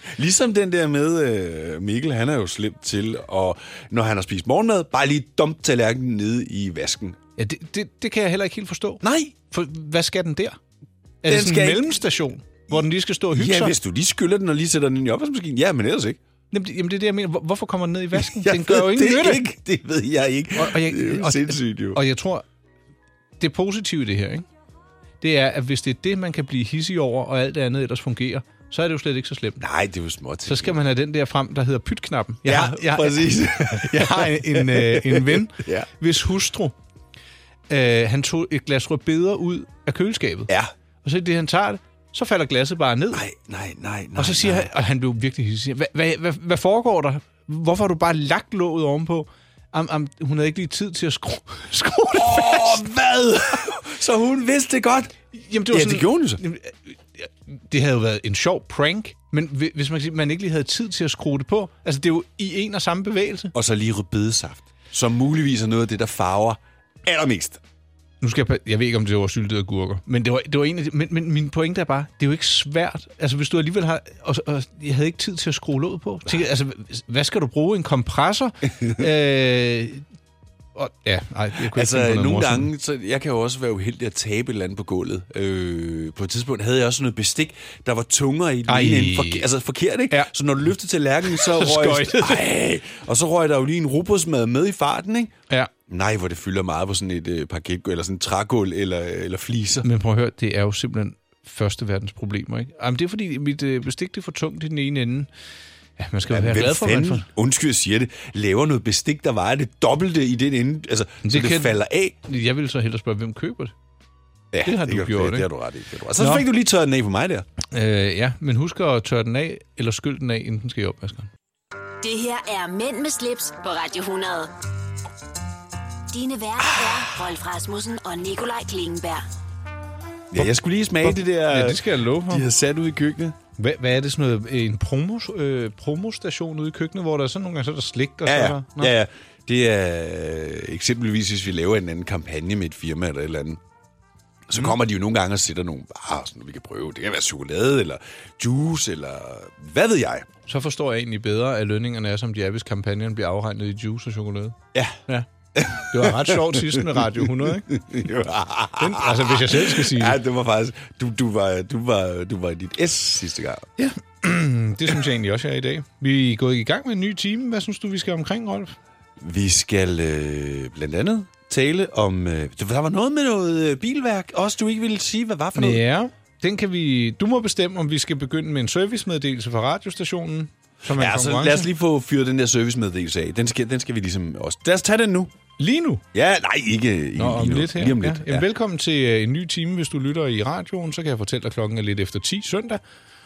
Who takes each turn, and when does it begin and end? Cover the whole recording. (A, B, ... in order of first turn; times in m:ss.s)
0:00.1-0:07.2 A
0:07.4-0:10.6 B
0:09.0-0:09.3 A
0:11.2-0:13.7 B
0:11.2-0:12.0 A
0:13.3-0:16.2 A
0:16.5-0:19.4 B
0:18.1-0:22.0 A
0:20.5-0:22.4 B
0:23.4-0:24.4 B
0:25.2-0:29.6 B
0:29.6-0:30.8 A
0:30.4-0:36.7 B
0:32.4-0:35.9 A
0:37.7-0:40.5 B
0:41.0-0:43.2 B
0:43.1-0:44.7 A
0:44.2-0:52.8 B
0:52.1-0:55.1 A
0:55.3-1:03.5 B
0:55.7-0:56.4 A
1:03.5-1:07.6 A
1:08.2-1:20.0 B
1:20.8-1:22.7 B
1:21.7-1:35.3 A
1:28.7-1:29.5 B
1:31.3-1:32.4 B
1:35.9-1:39.8 A
1:39.8-1:45.3 B
1:46.0-1:47.3 B
1:46.3-1:52.2 A
1:51.2-1:53.7 B
1:54.5-1:57.4 A
1:54.6-1:55.5 B
1:56.2-1:56.4 B
1:57.7-2:01.3 B
2:02.0-2:04.5 C
2:06.1-2:09.2 C
2:10.3-2:13.4 A
2:11.0-2:12.4 B
2:13.6-2:18.9 B
2:18.2-2:23.6 A
2:24.5-2:30.3 A
2:30.5-2:34.6 B
2:34.7-2:35.0 A
2:35.1-2:37.7 B
2:35.5-2:43.7 A
2:38.8-2:40.2 B
2:43.8-2:48.8 B
2:49.2-2:55.8 A
2:55.5-3:01.7 B
3:00.9-3:05.3 A
3:05.6-3:06.0 B
3:06.1-3:08.4 A
3:07.2-3:12.8 B